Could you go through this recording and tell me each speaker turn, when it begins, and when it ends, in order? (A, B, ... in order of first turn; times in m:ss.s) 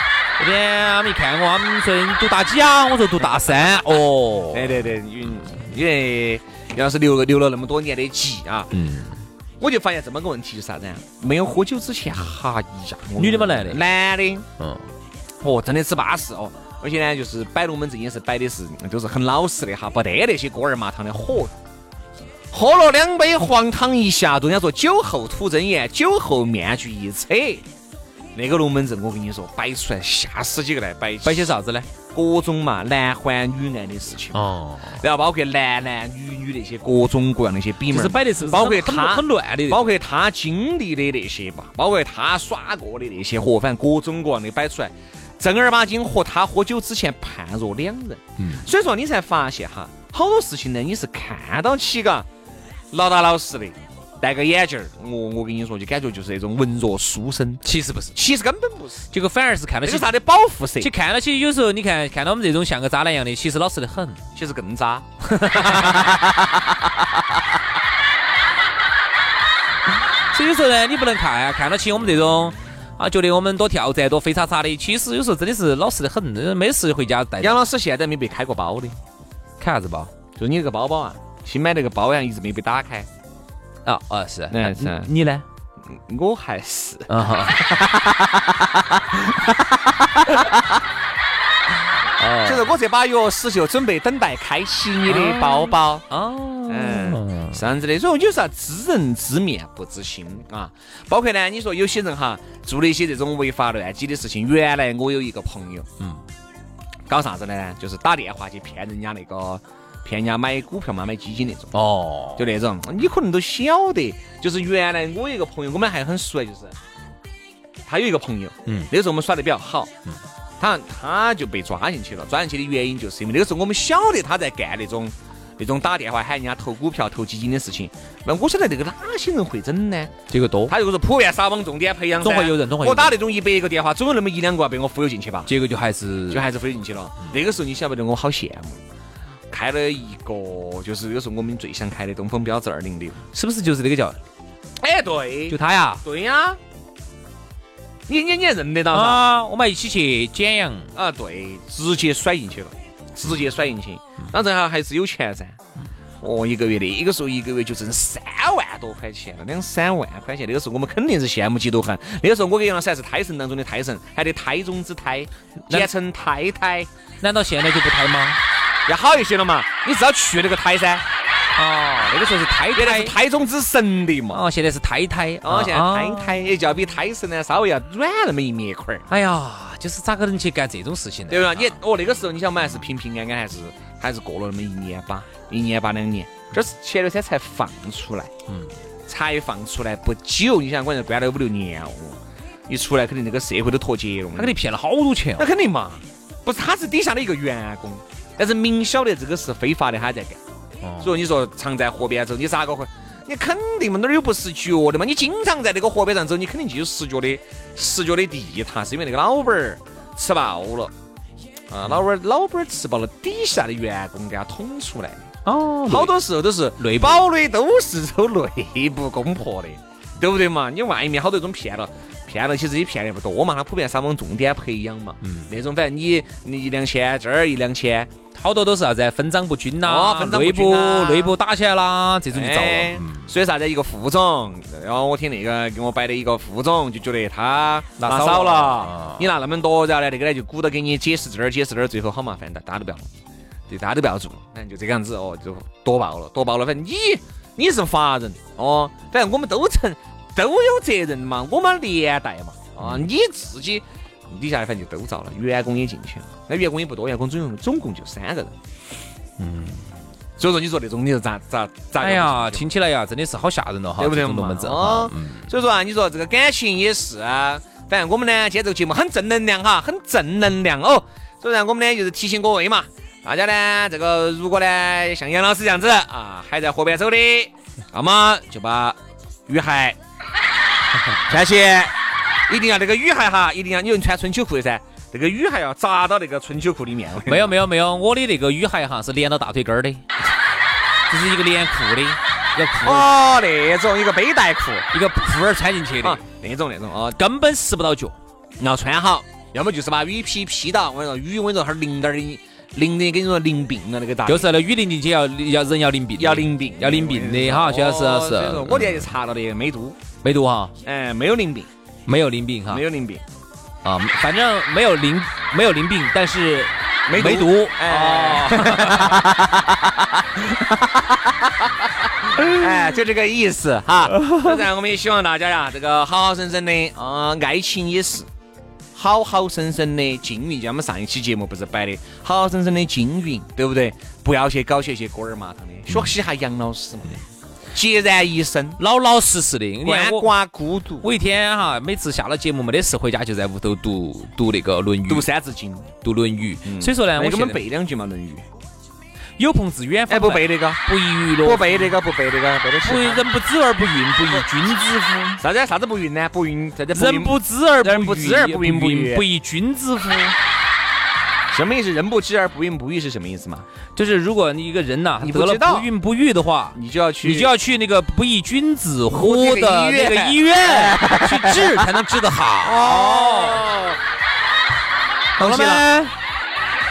0:00.4-0:04.8 A
0:03.2-0:03.7 B
0:04.5-0:08.7 B
0:08.7-0:09.2 A
0:09.6-0:14.4 B
0:13.2-0:13.8 A
0:14.6-0:14.9 A
0:15.4-0:21.5 B
0:22.5-0:27.6 B
0:28.3-0:31.6 B
0:31.2-0:31.9 A
0:32.1-0:52.2 B
0:34.3-0:35.0 A
0:37.9-0:39.8 A
0:48.4-0:48.6 A
0:52.9-0:57.6 B
0:57.6-0:58.2 A
0:58.1-0:59.1 B
0:59.1-1:00.0 A
0:59.8-1:00.9 B
1:00.8-1:04.2 A
1:04.3-1:06.3 B
1:05.2-1:06.3 A
1:10.3-1:17.5 A
1:17.4-1:19.0 B
1:19.6-1:20.1 A
1:20.4-1:23.1 B
1:23.8-1:25.4 A
1:24.5-1:25.1 B
1:25.9-1:28.2 B
1:27.1-1:27.6 A
1:32.2-1:32.6 A
1:32.4-1:36.0 B
1:35.1-1:37.6 A
1:36.7-1:45.9 B
1:46.0-1:46.2 A
1:47.1-1:51.7 B
1:51.7-1:52.5 A
1:52.4-1:56.7 B
1:57.8-1:59.9 B
2:00.6-2:10.1 B
2:10.3-2:10.7 A
2:10.7-2:15.5 B
2:12.2-2:13.2 A
2:15.5-2:16.4 A
2:16.3-2:18.8 B
2:19.5-2:23.2 B
2:23.3-2:24.2 A
2:24.8-2:26.6 B
2:25.5-2:26.0 A
2:28.1-2:29.3 B
2:28.9-2:30.9 A
2:30.9-2:35.6 B
2:36.2-2:46.9 B
2:47.2-2:48.4 A
2:48.8-2:51.0 B
2:51.6-2:53.1 A
2:52.7-2:54.4 B
2:54.3-2:56.4 A
2:55.4-2:59.1 B
2:59.1-3:01.6 A
3:01.3-3:08.3 B
3:08.5-3:08.7 A
3:09.1-3:14.6 B
3:14.4-3:15.4 A
3:15.4-3:20.4 B
3:20.8-3:21.1 A
3:21.0-3:30.9 B
3:31.7-3:35.3 B
3:35.4-3:36.1 A
3:35.8-3:48.1 B
3:36.8-3:37.2 A
3:45.2-3:45.5 A
3:48.3-3:53.3 A
3:49.8-3:51.4 B
3:52.3-4:03.1 B
3:58.0-3:59.3 A
4:03.7-4:18.5 B
4:19.4-4:19.9 A
4:20.4-4:22.7 B
4:22.0-4:25.5 A
4:24.0-4:40.0 B
4:41.3-4:41.9 B
4:42.5-4:47.5 B
4:47.2-4:50.0 A
4:51.1-4:53.0 A
4:52.8-4:54.9 B
4:54.9-4:56.2 A
4:56.0-4:57.2 B
4:57.1-4:58.2 A
4:58.6-5:04.5 B
5:04.3-5:09.1 A
5:06.2-5:10.0 B
5:10.2-5:10.7 A
5:10.8-5:11.7 B
5:12.0-5:12.8 A
5:12.7-5:13.2 B
5:13.8-5:19.5 A
5:17.1-5:19.4 B
5:20.4-5:20.9 B
5:22.3-5:28.3 B
5:24.2-5:24.4 A
5:28.9-5:37.2 B
5:37.7-5:38.8 B
5:38.8-5:40.3 A
5:39.8-5:41.1 B
5:41.0-5:45.2 A
5:45.1-5:45.9 B
5:46.0-5:47.6 A
5:46.6-5:48.4 B
5:49.4-5:51.8 A
5:50.1-5:50.8 B
5:51.4-5:53.2 B
5:52.8-5:55.4 A
5:55.4-5:59.2 B
5:56.9-6:00.4 A
6:01.5-6:03.7 B
6:03.9-6:13.6 A
6:05.2-6:05.9 B
6:06.7-6:07.5 B
6:09.1-6:11.9 B
6:12.6-6:14.0 B
6:15.4-6:15.9 B
6:15.4-6:16.1 A